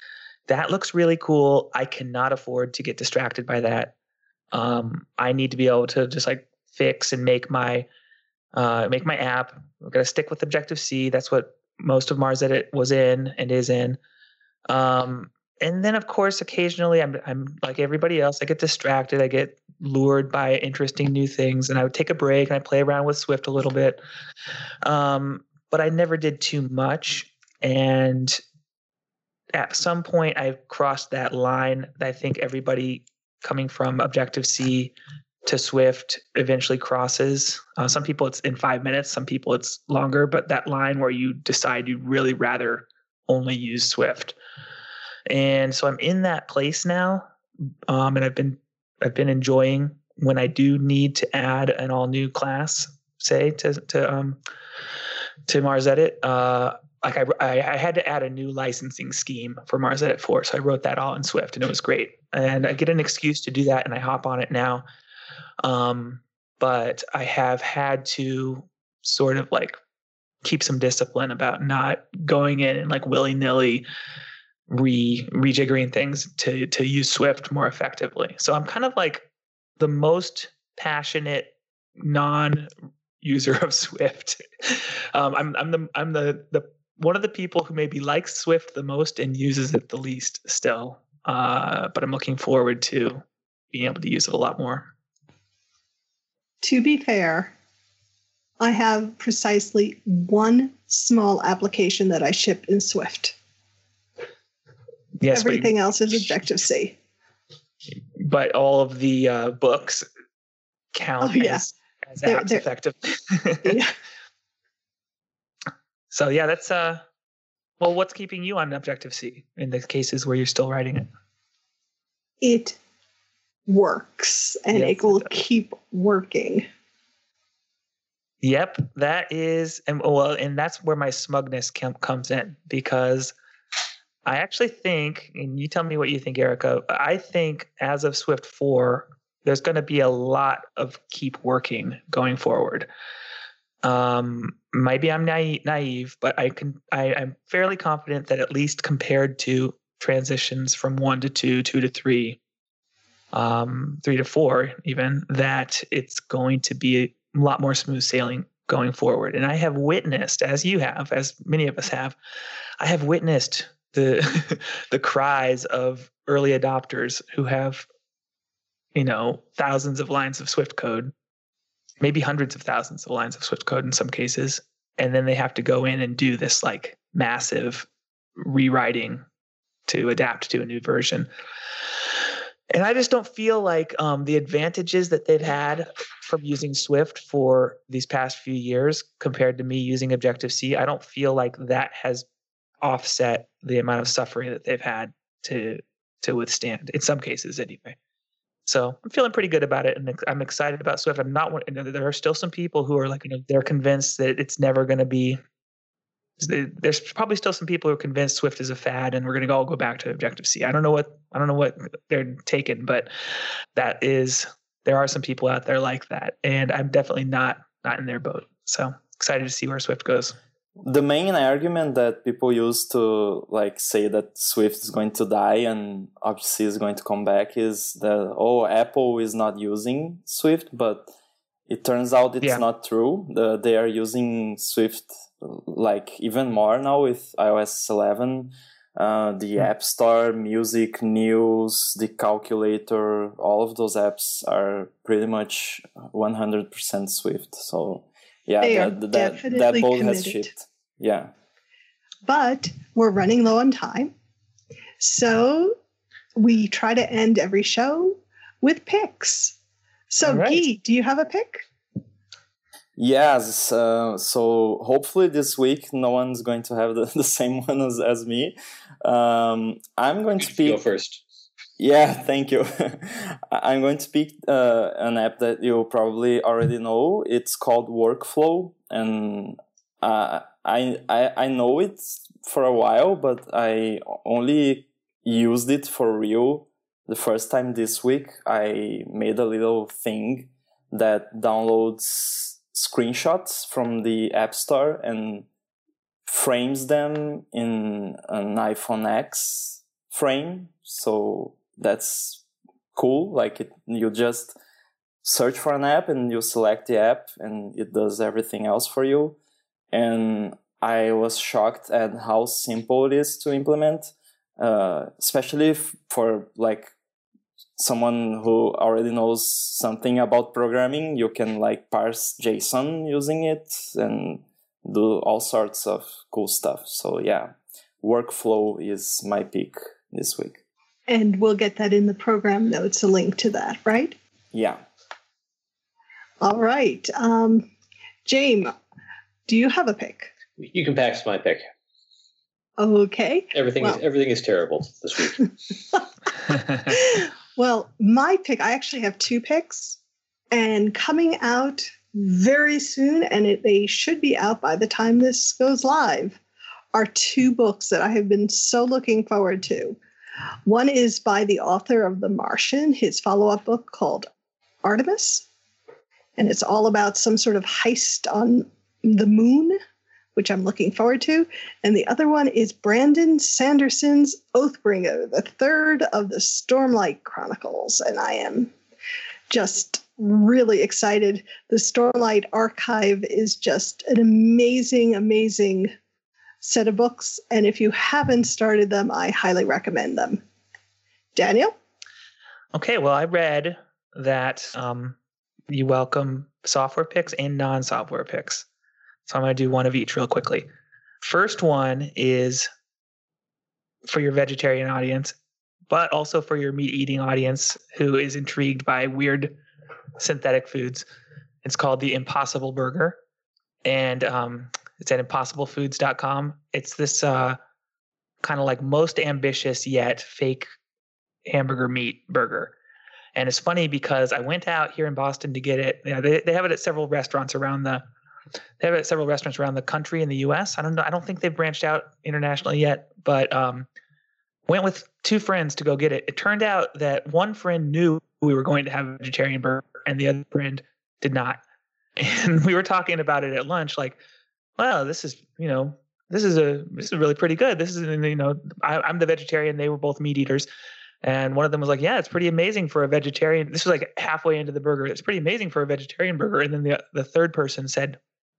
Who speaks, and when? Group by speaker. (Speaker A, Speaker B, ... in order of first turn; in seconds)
Speaker A: 0.5-3.9, 4.5-7.9, 8.5-14.0, 14.7-24.0, 24.8-28.4, 29.5-34.9, 35.5-44.4, 45.3-47.3, 47.9-54.4, 55.5-64.8, 65.6-69.8, 70.4-73.8, 74.7-79.3, 79.8-82.7, 83.2-94.9, 105.2-105.8, 108.2-110.1, 110.9-113.8, 116.1-117.0, 117.8-121.1, 124.7-125.3, 128.4-133.3, 134.2-142.9, 143.8-152.4, 153.3-162.2, 162.8-167.9, 168.9-171.1, 172.0-177.9, 178.4-179.2, 179.9-181.3, 182.7-192.2, 192.8-198.0, 198.7-205.4, 206.4-213.1, 213.8-220.4, 260.2-260.6, 392.7-395.2, 395.7-398.7, 399.3-400.7, 401.2-402.7, 404.1-405.3, 405.9-409.6, 410.2-411.1, 411.6-413.2, 413.9-417.6, 418.4-420.7, 421.5-422.7, 423.4-428.0, 428.8-433.9, 434.7-441.6, 442.2-444.2, 444.8-450.7, 451.2-458.2
Speaker B: 96.6-97.5, 98.6-103.3, 105.3-107.0, 111.2-111.7, 112.2-112.6, 113.7-113.9, 122.4-122.8, 123.7-126.7, 248.6-250.5, 252.2-254.1, 255.0-255.8, 256.4-259.6, 260.1-261.6, 331.1-334.1, 336.4-337.7, 338.3-338.7, 339.5-340.3, 342.8-344.0, 346.8-350.0, 350.5-356.4, 356.9-360.0, 360.7-364.3, 364.8-365.4, 366.4-369.8, 370.4-378.7, 379.5-385.9, 386.6-390.4, 391.4-391.7
Speaker C: 220.8-231.1, 231.7-251.3, 263.0-270.8, 271.8-295.5, 296.3-302.4, 302.9-304.6, 305.2-309.4, 309.9-316.9, 317.8-330.6, 334.5-334.8
Speaker D: 270.4-271.2, 340.6-341.6, 343.5-345.5